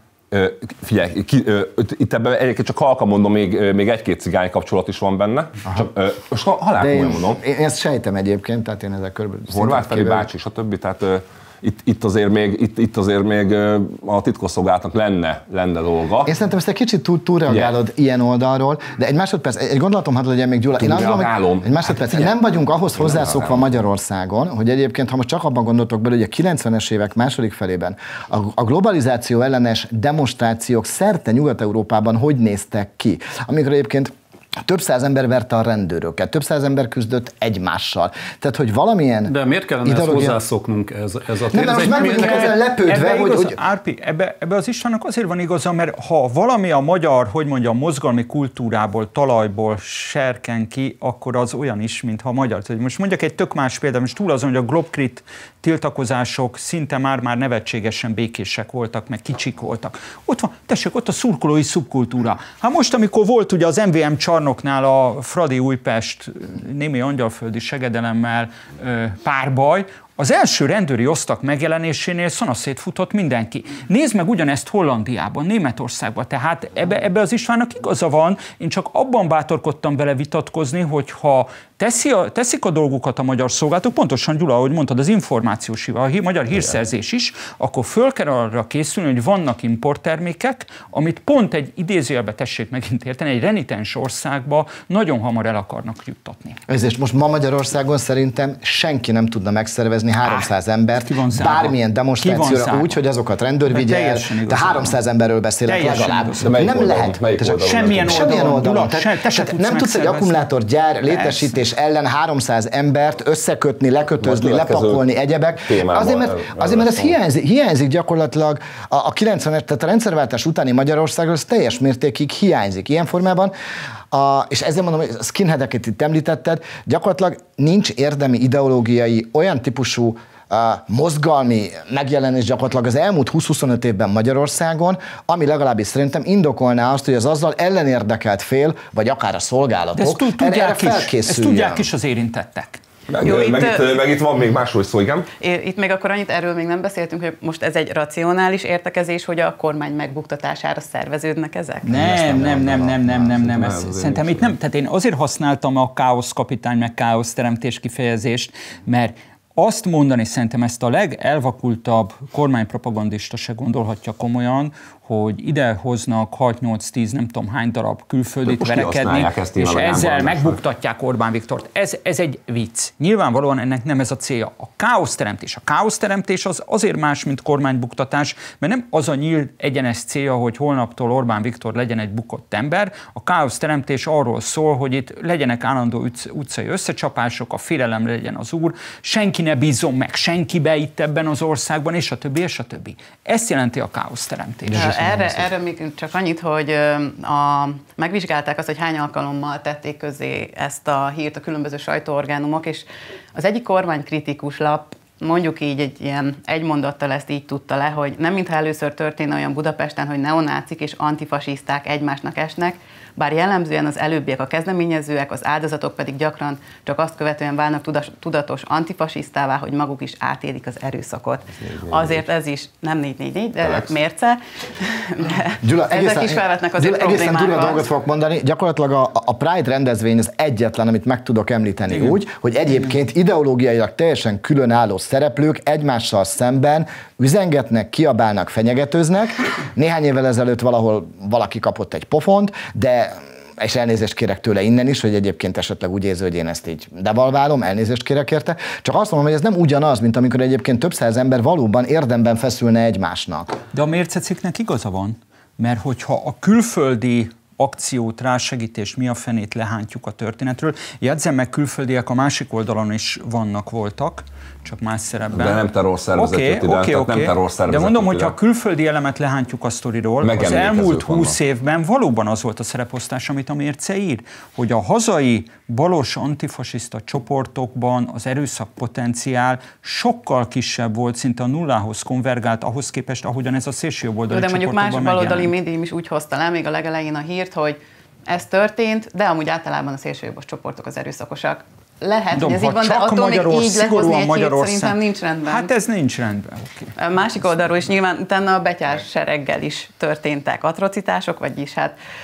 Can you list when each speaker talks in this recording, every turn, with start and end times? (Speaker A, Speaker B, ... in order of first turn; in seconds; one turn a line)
Speaker A: 0.3-7.4
Speaker B: 6.8-10.3
Speaker A: 9.5-16.3
Speaker B: 16.2-39.3
Speaker A: 20.8-22.3
Speaker A: 23.0-23.7
Speaker C: 39.3-42.5
Speaker B: 39.8-40.4
Speaker B: 41.5-43.6
Speaker D: 41.8-96.6
Speaker B: 96.7-123.5
Speaker D: 100.2-100.5
Speaker D: 101.0-103.0
Speaker D: 103.7-105.0
Speaker D: 105.7-106.7
Speaker A: 106.4-108.4
Speaker D: 107.6-110.4
Speaker D: 111.1-111.5
Speaker A: 114.2-115.0
Speaker A: 115.7-117.1
Speaker B: 124.1-141.9
Speaker D: 140.0-142.8
Speaker A: 143.1-145.3
Speaker E: 143.2-144.0
Speaker E: 145.4-152.1
Speaker D: 151.8-195.0
Speaker A: 151.9-154.5
Speaker B: 152.2-153.2
Speaker A: 168.5-170.6
Speaker B: 194.7-195.5
Speaker E: 194.7-227.9
Speaker A: 221.6-222.2
Speaker A: 223.6-223.9
Speaker B: 225.6-253.6
Speaker D: 253.7-265.6
Speaker A: 265.3-268.3
Speaker D: 266.2-285.5
Speaker A: 270.2-271.4
Speaker E: 284.3-295.7
Speaker D: 292.3-296.9
Speaker E: 297.0-301.9